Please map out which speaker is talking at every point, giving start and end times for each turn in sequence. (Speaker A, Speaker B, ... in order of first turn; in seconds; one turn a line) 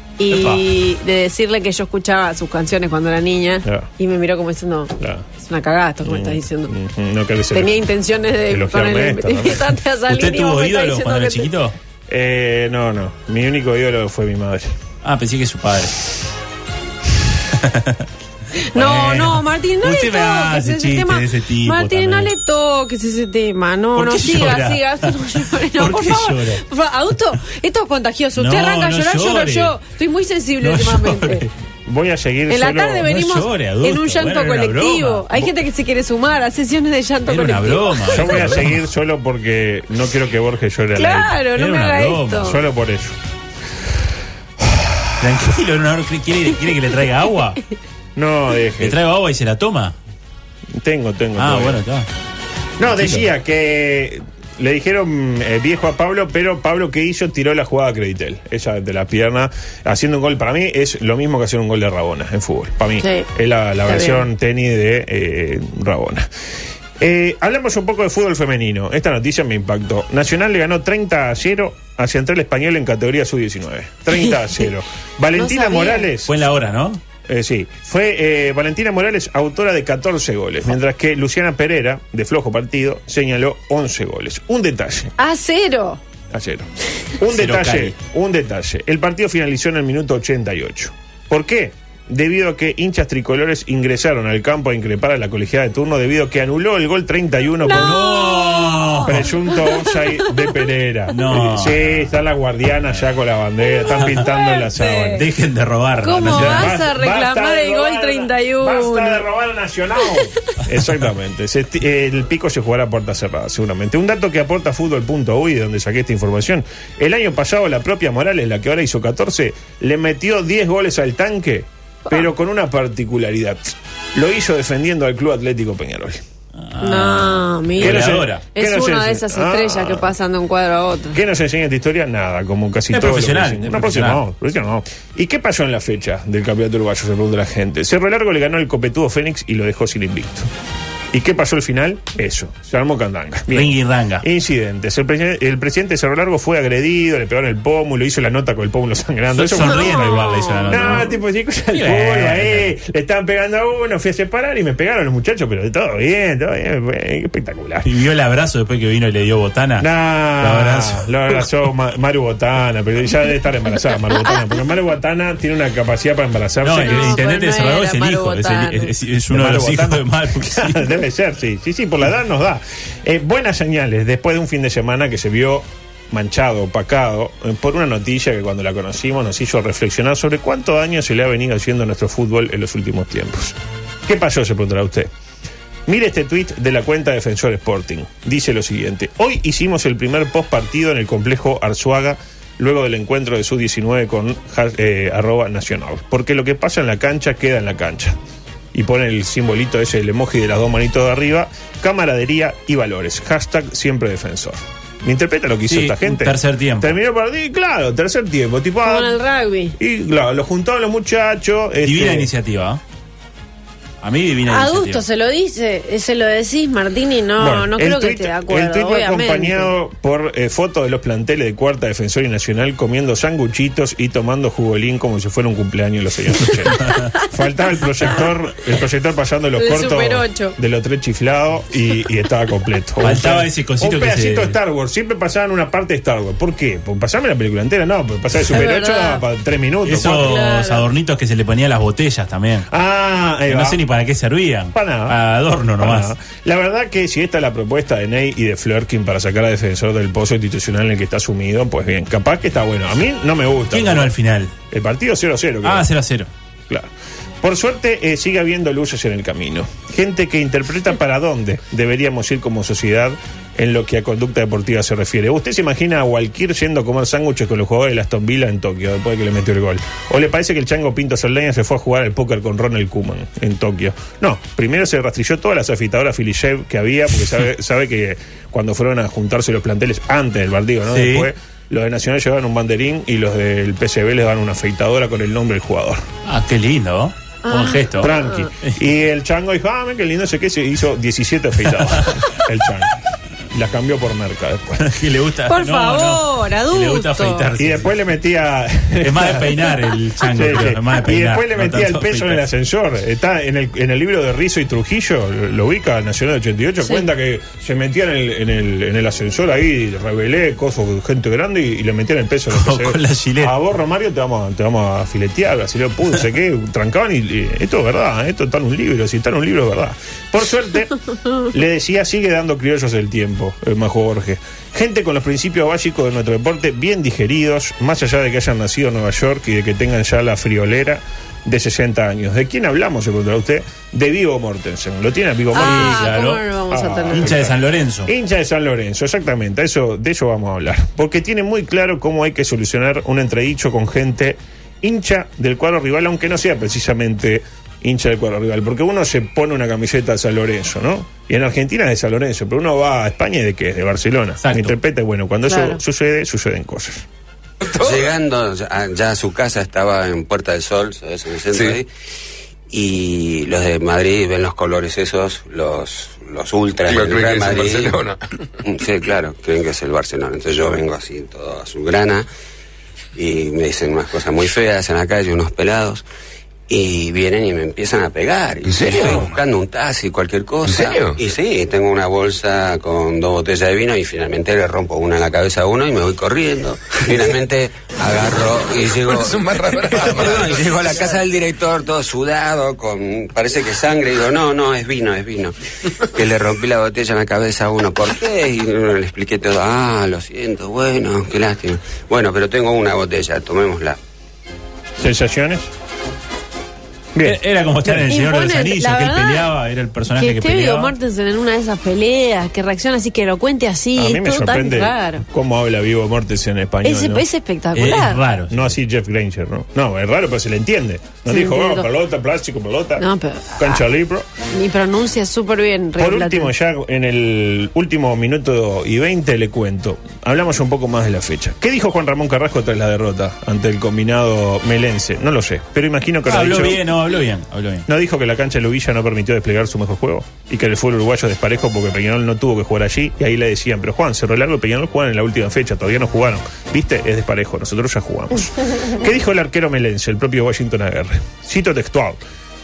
Speaker A: 0.2-6.7
Speaker B: 0.3-0.6
Speaker C: 5.0-5.2
Speaker C: 6.0-7.8
Speaker A: 7.5-11.5
Speaker C: 8.5-9.7
Speaker B: 10.1-11.8
Speaker C: 12.1-14.8
Speaker B: 15.0-15.9
Speaker B: 17.5-18.1
Speaker A: 18.6-31.4
Speaker B: 18.7-22.3
Speaker B: 23.9-26.6
Speaker B: 28.4-29.8
Speaker B: 30.6-31.5
Speaker C: 31.9-33.1
Speaker A: 32.5-38.6
Speaker B: 33.0-35.4
Speaker B: 37.3-38.8
Speaker C: 38.1-41.3
Speaker A: 41.0-42.6
Speaker B: 41.5-42.5
Speaker C: 42.4-43.2
Speaker B: 45.2-47.6
Speaker C: 48.1-49.0
Speaker B: 48.8-49.9
Speaker C: 50.7-51.8
Speaker B: 51.4-52.1
Speaker C: 52.8-66.3
Speaker B: 52.9-53.3
Speaker A: 63.0-63.3
Speaker A: 63.9-64.2
Speaker C: 67.0-76.3
Speaker A: 75.4-76.1
Speaker B: 76.3-77.0
Speaker C: 77.3-85.1
Speaker A: 85.2-86.0
Speaker C: 86.3-86.7
Speaker C: 87.2-98.1
Speaker B: 87.3-88.0
Speaker A: 97.6-100.0
Speaker B: 97.7-99.3
Speaker C: 99.0-105.2
Speaker B: 101.1-101.8
Speaker A: 104.0-105.2
Speaker B: 105.1-106.8
Speaker A: 106.0-109.2
Speaker C: 106.3-126.2
Speaker B: 126.5-128.4
Speaker A: 126.8-131.2
Speaker C: 127.8-130.1
Speaker C: 131.1-140.5
Speaker B: 132.9-134.2
Speaker C: 141.1-157.9
Speaker B: 143.5-144.2
Speaker B: 149.3-151.2
Speaker A: 149.8-151.0
Speaker B: 151.7-152.7
Speaker B: 157.8-161.4
Speaker C: 159.8-167.2
Speaker B: 166.6-171.0
Speaker A: 166.8-168.9
Speaker C: 169.3-185.1
Speaker C: 185.9-198.2
Speaker C: 198.7-209.2
Speaker B: 205.7-206.9
Speaker A: 208.8-209.8
Speaker C: 209.8-212.3
Speaker B: 211.8-212.8
Speaker B: 214.0-215.0
Speaker A: 214.5-219.7
Speaker C: 217.4-240.3
Speaker A: 229.6-230.6
Speaker B: 233.0-234.6
Speaker A: 238.5-239.2
Speaker B: 239.8-242.7
Speaker A: 240.1-240.8
Speaker C: 242.7-243.8
Speaker B: 243.5-246.1
Speaker C: 244.7-245.1
Speaker C: 245.8-254.1
Speaker B: 253.7-254.5
Speaker C: 254.7-255.9
Speaker B: 255.6-256.3
Speaker C: 257.4-286.0
Speaker B: 280.9-281.3
Speaker B: 286.2-288.8
Speaker A: 287.4-288.5
Speaker C: 288.0-292.9
Speaker B: 291.6-292.4
Speaker C: 293.5-295.0
Speaker B: 294.8-297.9
Speaker A: 295.5-297.5
Speaker C: 297.6-336.1
Speaker B: 299.0-302.4
Speaker B: 312.5-313.5
Speaker A: 335.5-337.3
Speaker B: 335.5-336.4
Speaker C: 336.7-357.0
Speaker B: 337.1-338.1
Speaker B: 354.4-354.7
Speaker A: 355.5-355.8
Speaker D: 357.8-358.1
Speaker E: 357.8-361.9
Speaker D: 361.5-361.8
Speaker E: 362.7-368.0
Speaker D: 366.8-368.5
Speaker E: 368.6-372.2
Speaker E: 373.1-376.0
Speaker E: 376.7-395.5
Speaker D: 378.6-379.4
Speaker D: 380.6-381.3
Speaker D: 388.8-391.2
Speaker E: 396.1-404.0
Speaker C: 405.0-405.7
Speaker B: 407.2-410.9
Speaker A: 408.0-409.5
Speaker A: 410.1-415.2
Speaker C: 414.0-417.2
Speaker A: 416.8-418.2
Speaker B: 417.7-418.7
Speaker C: 418.5-423.0
Speaker A: 421.3-421.9
Speaker A: 423.0-423.8
Speaker C: 423.6-424.3
Speaker A: 424.5-426.5
Speaker C: 426.0-436.8
Speaker B: 436.2-437.9
Speaker C: 437.9-452.2